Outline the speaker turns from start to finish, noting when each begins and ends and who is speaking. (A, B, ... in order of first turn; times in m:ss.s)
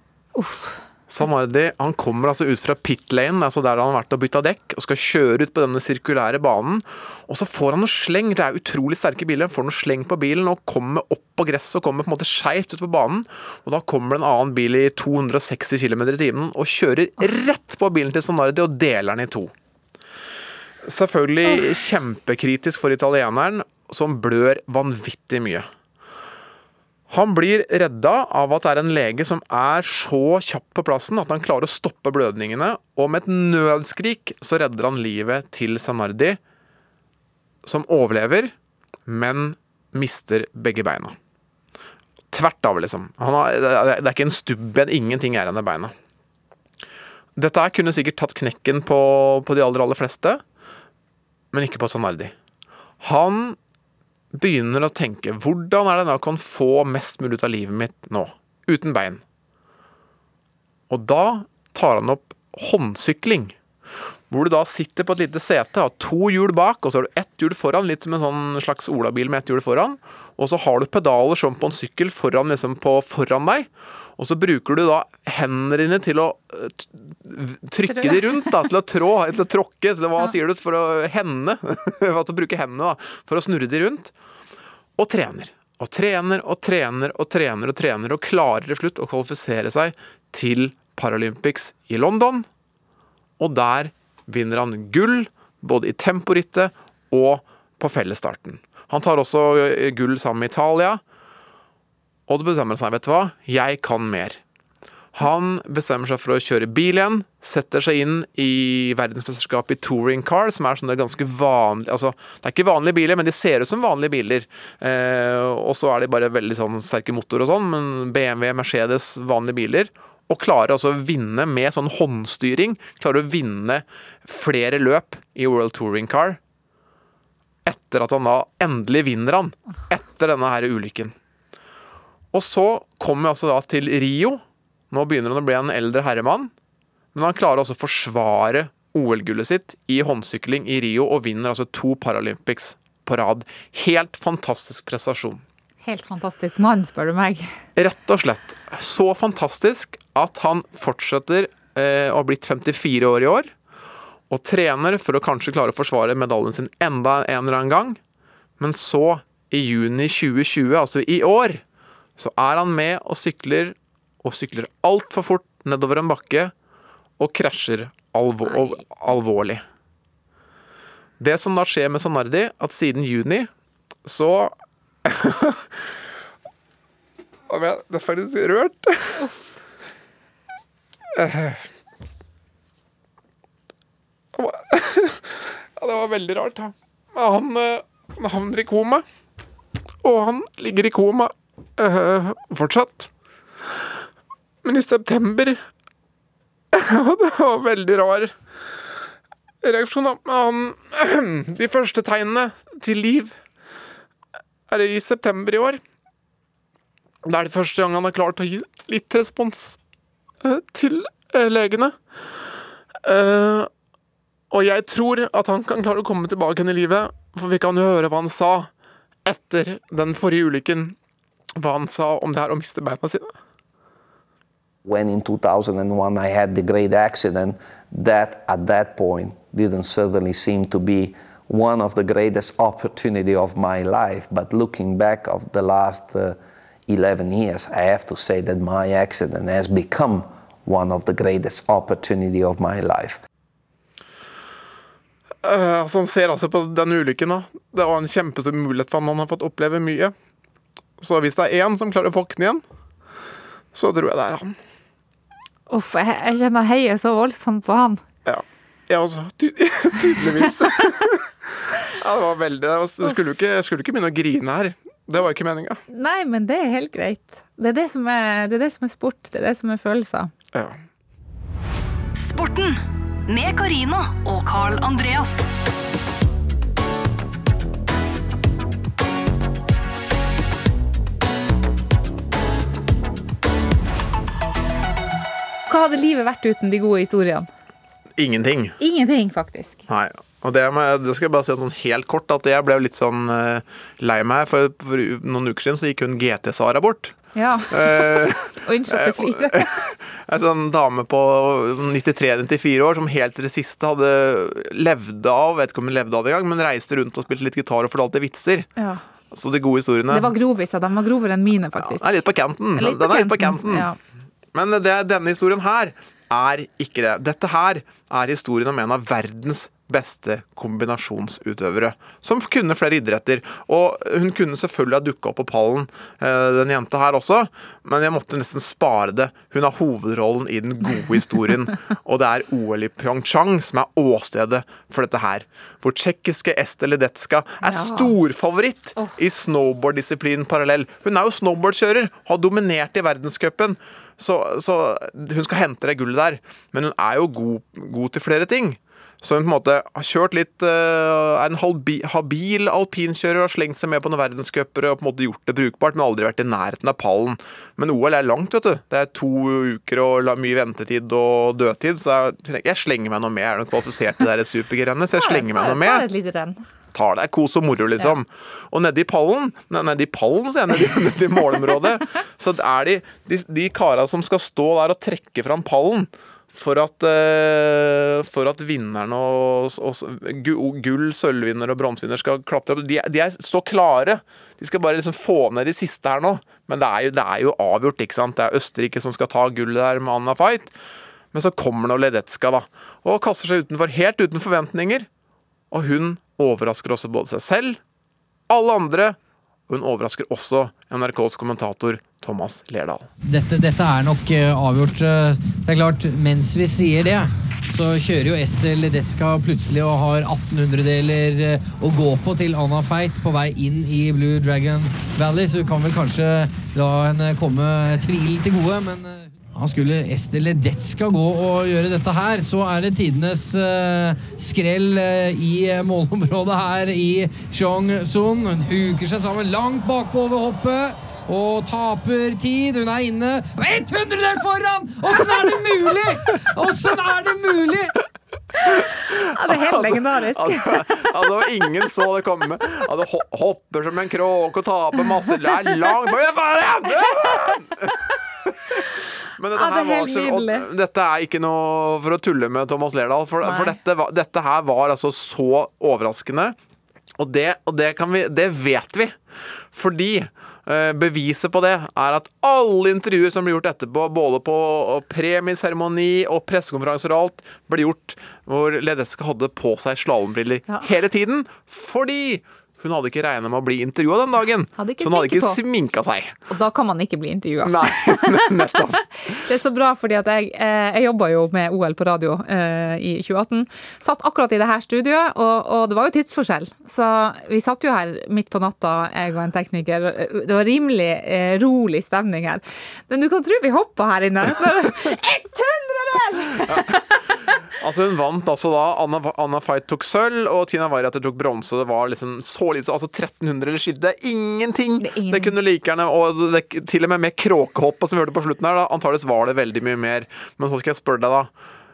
0:00.4-0:00.8 A
0:01.1-0:19.5 B
0:20.8-0:25.7 B
0:27.1-0:36.4 B
0:37.6-0:38.5 B
0:39.1-0:41.2 B
0:42.3-0:45.9 B
0:47.4-0:50.4 B
0:51.5-0:52.3 B
0:53.0-0:53.6 B
0:54.3-0:59.2 B
1:00.9-1:03.6 B
1:04.3-1:24.1 B
1:17.9-1:18.4 A
1:25.0-1:32.5 B
1:33.4-1:41.0 B
1:42.3-1:44.4 B
1:45.2-2:06.4 B
2:07.6-2:11.1 B
2:12.3-2:16.5 B
2:17.2-2:25.4 B
2:25.8-2:27.5 A
2:27.8-2:33.5 B
2:34.3-2:38.0 B
2:38.6-2:41.6 B
2:42.2-2:46.5 B
2:47.2-2:49.6 B
2:48.5-2:48.8 A
2:51.2-2:53.5 B
2:54.0-2:55.7 B
2:57.5-2:59.2 B
3:01.2-3:01.6 B
3:04.4-3:09.0 B
3:10.0-3:13.1 B
3:14.6-3:15.6 B
3:16.7-3:18.4 B
3:19.6-3:23.4 B
3:24.7-3:25.8 B
3:27.2-3:29.8 B
3:30.4-3:32.0 B
3:33.0-3:33.7 B
3:34.5-3:38.7 B
3:39.2-3:41.0 B
3:41.6-3:43.3 B
3:44.8-4:03.2 C
4:05.4-4:10.1 B
4:11.0-4:12.6 B
4:13.7-4:14.6 B
4:15.7-4:18.0 A
4:18.2-4:25.8 B
4:25.9-4:30.3 A
4:30.5-4:30.8 B
4:32.2-4:35.5 D
4:45.7-4:47.5 A
4:48.2-4:48.8 B
4:48.8-4:49.8 A
4:49.9-4:57.2 B
4:57.4-4:59.7 A
4:57.7-5:08.7 B
5:09.3-5:10.3 B
5:10.1-5:12.1 A
5:11.8-5:13.9 B
5:12.8-5:14.0 A
5:14.5-6:06.1 B
5:37.6-5:38.1 A
6:05.2-6:06.6 A
6:06.9-6:30.7 B
6:31.3-6:35.1 B
6:35.7-6:37.8 B
6:38.5-6:39.2 B
6:39.7-6:43.1 B
6:43.2-7:18.0 E
7:19.1-7:28.5 B
7:19.3-7:21.1 A
7:29.4-7:36.6 B
7:29.6-7:30.7 A
7:33.4-7:33.8 A
7:37.2-7:39.2 B
7:39.7-7:56.4 B
7:54.8-7:55.6 A
7:56.5-7:58.5 A
7:57.6-7:59.0 B
7:59.3-8:17.2 A
8:17.8-8:31.5 B
8:25.0-8:25.5 A